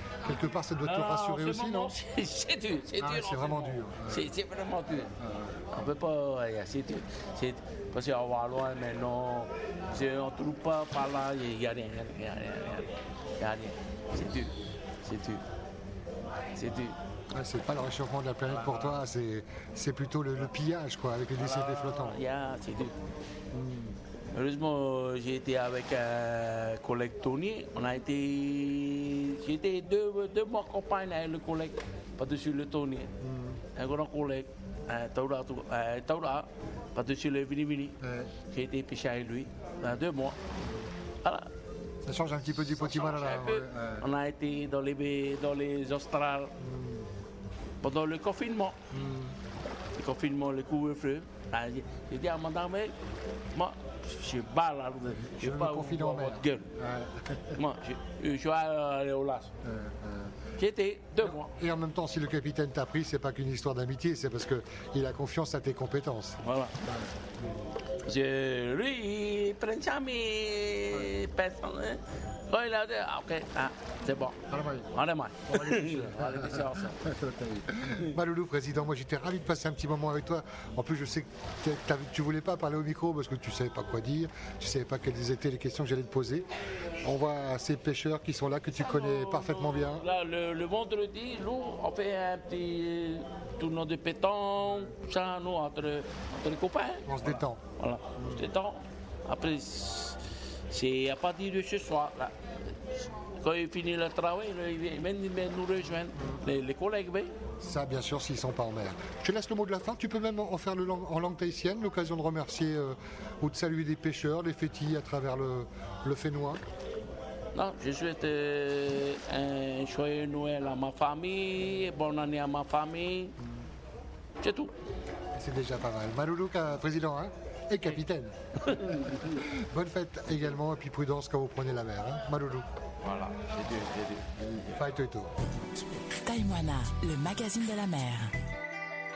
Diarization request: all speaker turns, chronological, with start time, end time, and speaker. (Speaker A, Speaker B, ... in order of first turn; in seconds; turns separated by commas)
Speaker A: 0.2-1.9, Speaker B: 0.8-5.1, Speaker A: 3.0-4.3, Speaker A: 5.1-5.7, Speaker B: 5.7-15.4, Speaker B: 16.5-16.9, Speaker A: 17.3-22.2, Speaker B: 18.5-19.0, Speaker B: 21.4-22.9, Speaker A: 23.5-23.9, Speaker B: 24.3-33.1, Speaker A: 33.2-33.6, Speaker B: 33.7-40.4, Speaker A: 38.0-38.3, Speaker B: 41.2-41.5, Speaker A: 42.0-44.1, Speaker B: 42.5-46.5, Speaker A: 46.6-47.1, Speaker B: 47.8-48.8, Speaker A: 48.9-49.4, Speaker B: 50.0-53.0, Speaker B: 53.5-56.7, Speaker A: 55.3-57.6, Speaker B: 57.5-59.5, Speaker A: 59.6-60.3, Speaker B: 60.6-61.5, Speaker A: 61.2-67.6, Speaker B: 66.4-66.7, Speaker B: 68.0-74.4, Speaker A: 74.5-74.9, Speaker B: 74.9-77.0, Speaker A: 75.5-90.1, Speaker B: 88.7-100.2, Speaker A: 97.0-97.6, Speaker A: 98.2-98.5, Speaker B: 100.7-102.3, Speaker B: 103.4-107.3, Speaker A: 106.1-106.4, Speaker A: 107.6-116.6, Speaker B: 117.5-123.3, Speaker B: 124.4-124.7, Speaker A: 125.3-132.7, Speaker B: 128.6-129.3, Speaker B: 133.0-134.6, Speaker A: 134.5-135.3, Speaker C: 136.2-138.3